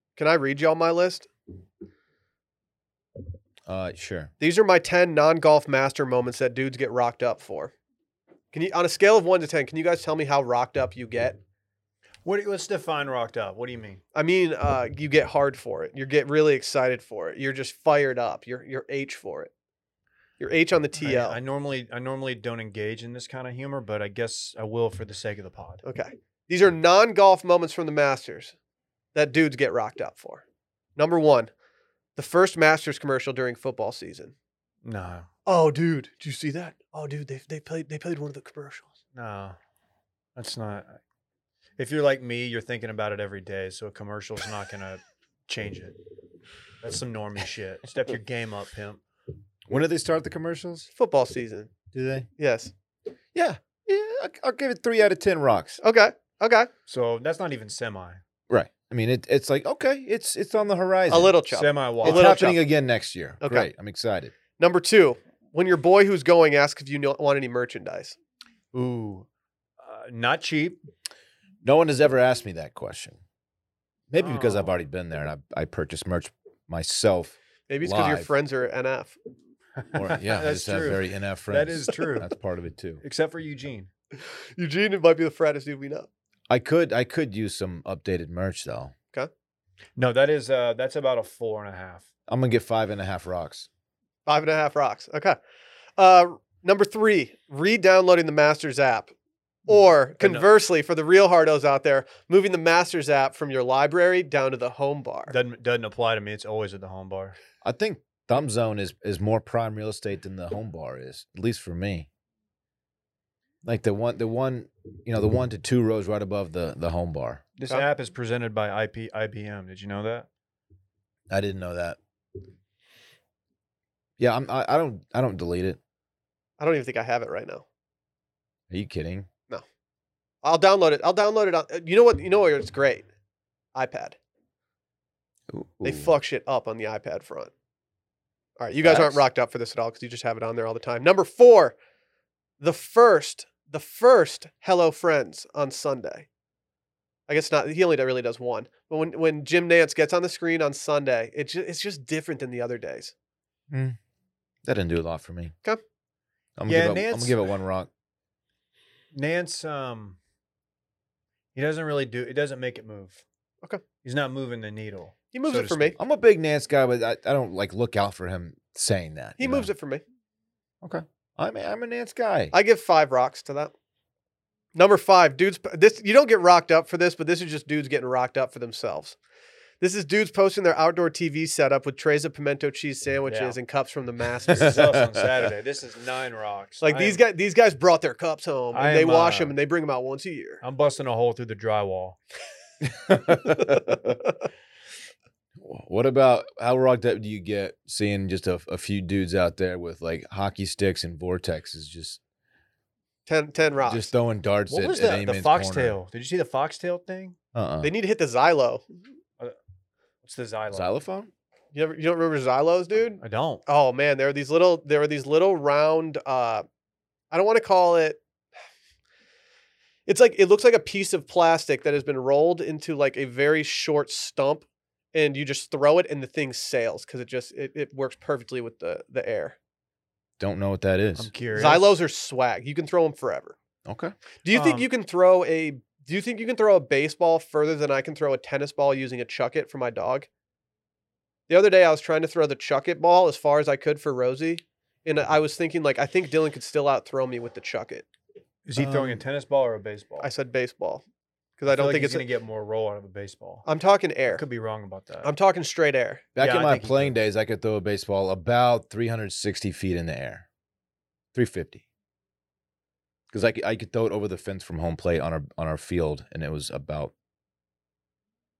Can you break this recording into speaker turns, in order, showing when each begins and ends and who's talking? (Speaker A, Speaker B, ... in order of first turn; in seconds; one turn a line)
Speaker A: 0.2-1.3
Speaker B: 3.7-4.3
Speaker A: 4.4-7.7
Speaker A: 8.5-11.4
Speaker C: 12.2-14.0
Speaker A: 14.1-19.5
Speaker A: 20.4-21.4
Speaker C: 21.0-25.8
Speaker A: 25.8-28.6
Speaker A: 29.1-30.4
Speaker A: 31.0-31.5
Speaker A: 32.2-34.3
Speaker C: 34.8-35.3
Speaker A: 35.5-38.9
Speaker C: 39.1-39.6
Speaker C: 40.4-41.0
Speaker C: 41.8-46.0
Speaker C: 46.8-49.0
Speaker B: 49.7-50.9
Speaker A: 51.0-51.7
Speaker B: 52.0-52.3
Speaker A: 52.4-52.7
Speaker B: 53.3-55.8
Speaker A: 55.8-56.7
Speaker C: 56.9-58.2
Speaker B: 58.5-61.4
Speaker A: 61.1-62.6
Speaker C: 61.5-62.3
Speaker B: 62.0-64.3
Speaker A: 63.4-63.7
Speaker A: 64.6-68.1
Speaker C: 68.7-69.3
Speaker C: 69.8-70.8
Speaker B: 71.6-73.2
Speaker B: 74.1-78.3
Speaker C: 74.2-74.7
Speaker A: 77.7-79.2
Speaker C: 79.8-82.3
Speaker B: 79.9-83.0
Speaker C: 83.0-83.9
Speaker A: 84.2-86.1
Speaker B: 86.5-88.9
Speaker C: 90.0-92.0
Speaker B: 92.3-93.7
Speaker A: 94.3-95.4
Speaker A: 96.0-99.1
Speaker A: 99.7-105.3
Speaker C: 99.7-100.5
Speaker C: 105.3-107.4
Speaker B: 107.6-112.1
Speaker B: 113.6-117.4
Speaker C: 117.6-120.3
Speaker B: 121.3-122.0
Speaker B: 124.2-125.8
Speaker A: 126.6-127.6
Speaker B: 128.7-129.3
Speaker A: 130.4-133.1
Speaker A: 133.7-134.2
Speaker B: 135.5-136.1
Speaker A: 135.8-137.5
Speaker A: 138.6-141.7
Speaker B: 138.8-139.2
Speaker A: 142.6-146.3
Speaker A: 147.3-153.1
Speaker B: 153.7-154.0
Speaker B: 154.6-155.5
Speaker B: 156.6-157.9
Speaker C: 156.7-157.4
Speaker C: 159.1-160.2
Speaker C: 161.6-163.2
Speaker C: 164.0-166.0
Speaker A: 165.3-166.0
Speaker B: 166.0-169.7
Speaker A: 169.4-170.0
Speaker B: 170.8-172.5
Speaker A: 172.5-173.7
Speaker A: 174.7-179.2
Speaker A: 179.8-184.8
Speaker C: 183.3-183.6
Speaker C: 184.5-187.2
Speaker B: 184.5-185.0
Speaker A: 186.8-190.6
Speaker C: 188.7-189.6
Speaker C: 190.6-192.2
Speaker B: 192.8-194.2
Speaker A: 193.7-194.1
Speaker B: 195.6-202.2
Speaker A: 203.3-204.1
Speaker B: 203.8-206.0
Speaker C: 204.7-207.4
Speaker B: 207.5-207.9
Speaker A: 207.8-208.9
Speaker C: 210.2-210.9
Speaker B: 210.7-211.3
Speaker A: 211.7-216.6
Speaker C: 213.2-213.6
Speaker A: 217.3-218.2
Speaker A: 220.1-229.6
Speaker B: 230.4-231.3
Speaker C: 231.2-232.0
Speaker A: 231.5-233.6
Speaker B: 233.8-234.1
Speaker A: 234.4-240.3
Speaker C: 234.5-234.9
Speaker A: 241.5-248.1
Speaker C: 248.7-250.3
Speaker A: 248.8-249.2
Speaker A: 250.2-251.0
Speaker A: 251.6-252.3
Speaker C: 251.7-253.7
Speaker A: 253.7-254.4
Speaker C: 254.3-255.3
Speaker A: 255.2-256.3
Speaker B: 256.4-260.4
Speaker C: 256.4-257.2
Speaker B: 261.3-261.8
Speaker B: 263.3-267.1